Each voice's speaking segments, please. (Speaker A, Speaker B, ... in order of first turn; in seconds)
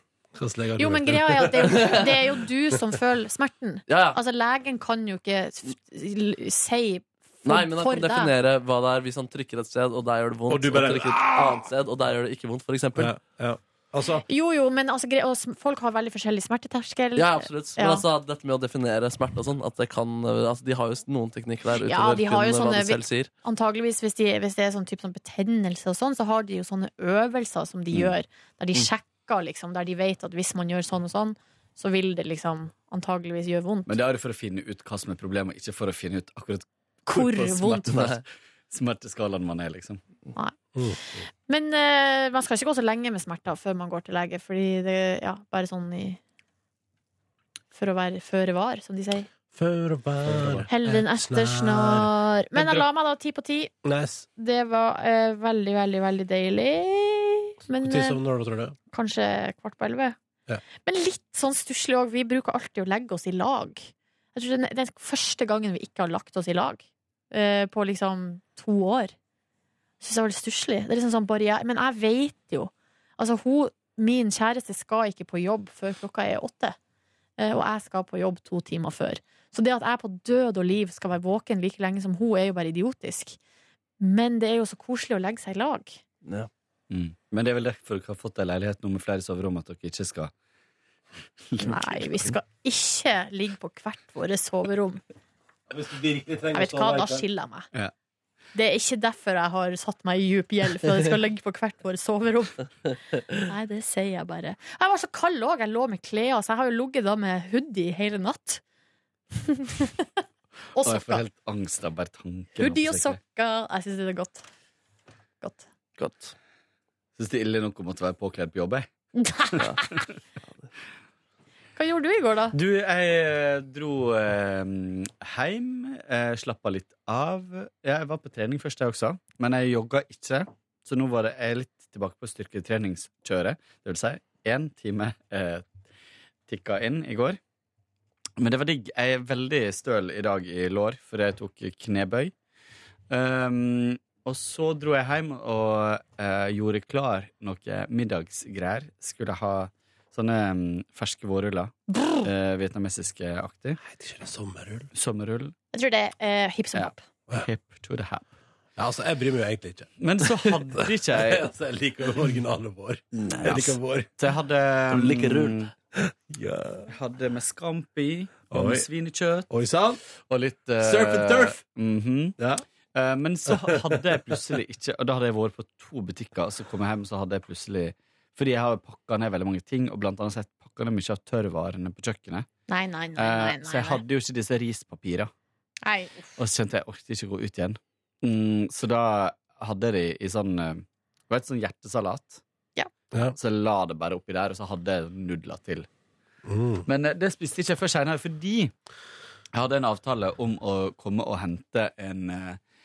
Speaker A: 0.3-2.1, 10.5-11.6, 12.9-14.2, 40.7-41.2, 49.5-52.9, 53.8-54.3, 57.8-58.8, 95.7-97.2, 153.8-154.9, 158.8-164.1, 166.1-166.6, 168.5-168.9, 169.5-170.0, 170.8-171.5, 173.5-174.0, 196.4-196.8
Speaker B: 0.8-8.3, 14.3-18.0, 21.8-33.9, 37.0-38.1, 41.5-46.2, 47.7-49.3, 50.7-53.7, 54.4-58.2, 58.9-60.1, 60.8-69.1, 70.0-76.8, 77.4-83.4, 84.0-86.0, 91.6-95.0, 96.5-97.7, 98.5-108.6, 109.4-110.2, 110.7-111.2, 112.6-114.5, 119.2-120.0, 121.8-122.5, 151.9-152.2, 155.7-157.0, 182.7-184.0, 185.8-186.3
Speaker C: 1.7-2.0, 3.9-4.2, 7.4-13.2, 17.1-23.3, 116.0-116.3, 164.9-165.6
Speaker D: 33.9-40.0, 50.3-50.5, 86.9-90.3, 91.5-92.3, 110.8-113.2, 117.2-118.9, 122.5-135.7, 136.5-137.4, 138.4-142.3, 143.1-153.8, 154.9-155.5, 156.7-158.2, 160.0-161.5, 163.4-165.7, 166.9-169.5, 170.3-172.3, 172.9-182.5, 183.2-185.3, 186.4-192.4, 193.3-195.9, 196.8-198.7, 199.5-202.6